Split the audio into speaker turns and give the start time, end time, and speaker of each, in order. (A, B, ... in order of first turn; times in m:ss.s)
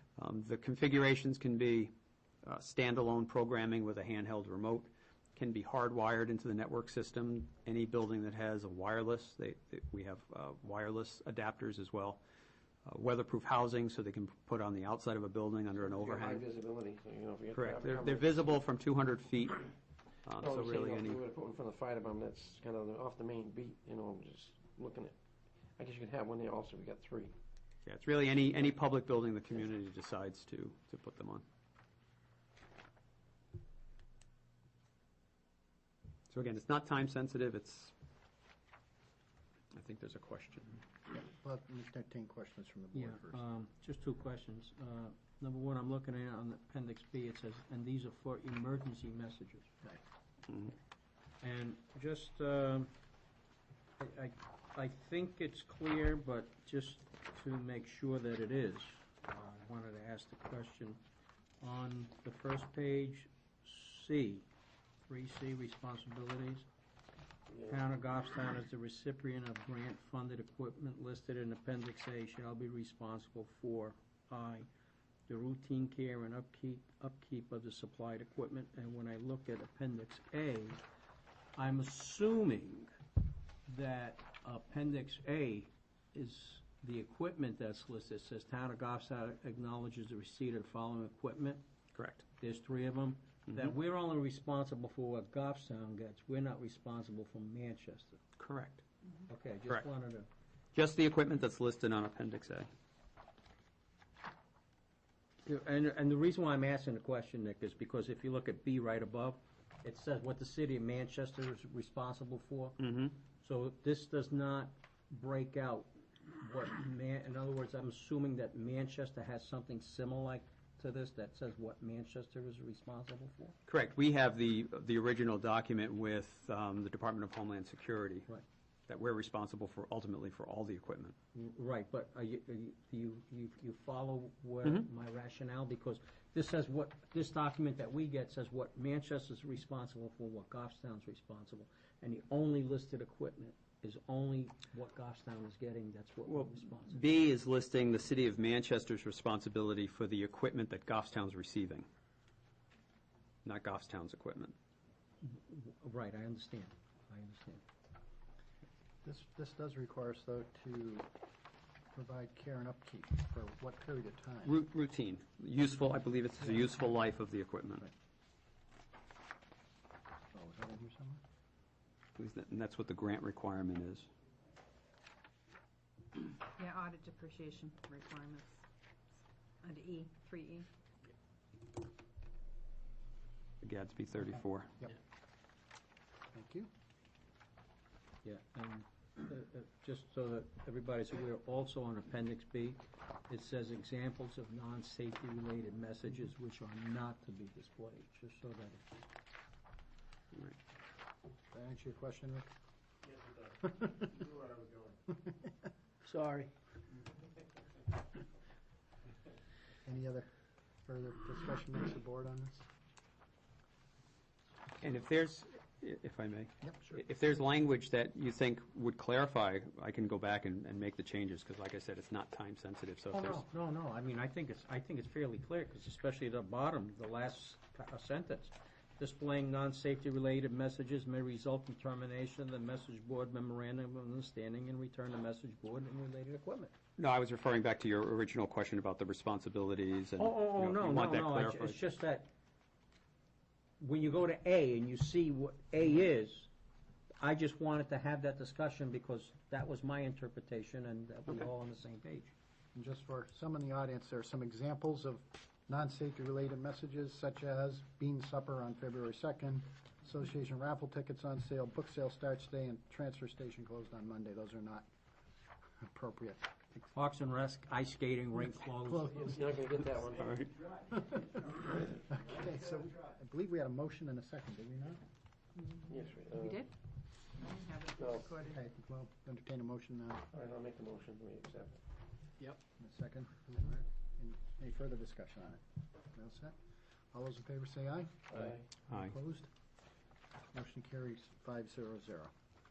0:00.2-0:01.9 A
0:02.4-0:12.2 A
0:12.9-0:16.4 A
0:15.8-0:18.4 B
0:17.5-0:19.7 A
0:20.2-0:21.2 A
0:20.4-0:25.2 B
0:25.8-0:27.3 B
0:27.8-0:31.4 A
0:36.3-0:37.9 A
0:39.7-0:40.8 A
0:41.1-0:43.4 C
0:42.9-0:49.7 D
0:50.5-0:50.7 A
0:51.4-0:52.9 D
0:54.0-1:01.0 D
1:01.6-1:04.4 D
1:05.1-1:06.7 D
1:07.5-1:07.8 B
1:07.7-1:14.7 D
1:15.3-1:20.8 D
1:21.6-1:22.9 D
1:23.7-1:31.6 D
1:31.9-1:32.2 A
1:32.4-1:38.2 D
1:38.4-1:38.8 A
1:39.3-1:40.3 D
1:40.7-1:42.7 A
1:45.4-2:03.6 D
1:52.8-1:53.1 A
2:03.7-2:08.3 A
2:08.9-2:11.2 A
2:11.3-2:27.0 D
2:26.3-2:31.9 A
2:33.4-2:34.5 A
2:35.2-2:37.6 D
2:39.0-2:41.1 C
2:41.9-2:44.6 C
2:44.4-2:47.9 A
2:50.3-2:51.2 C
2:52.2-2:54.1 A
2:56.4-2:58.6 E
2:59.6-3:00.7 E
3:03.6-3:04.7 A
3:06.3-3:06.7 C
3:08.2-3:18.8 D
3:21.5-3:22.5 C
3:23.6-3:24.2 C
3:24.3-3:24.8 B
3:25.1-3:25.5 C
3:26.0-3:26.5 D
3:29.8-3:30.3 C
3:30.8-3:32.7 C
3:34.8-3:43.4 A
3:36.6-3:37.0 C
3:43.1-3:56.7 D
3:57.0-4:01.8 A
4:00.2-4:02.3 D
4:03.8-4:06.5 D
4:07.2-4:12.3 D
4:12.7-4:24.9 C
4:25.8-4:26.6 C
4:26.9-4:29.3 D
4:28.8-4:29.4 C
4:29.1-4:30.4 B
4:30.2-4:30.7 A
4:30.9-4:35.0 C
4:35.6-4:36.7 E
4:35.9-4:36.6 B
4:37.3-4:38.6 E
4:38.0-4:38.3 B
4:38.4-4:40.3 C
4:40.3-4:41.8 B
4:42.4-4:45.6 C
4:46.1-4:46.6 C
4:47.1-4:49.5 C
4:48.3-4:48.6 B
4:50.5-4:52.3 C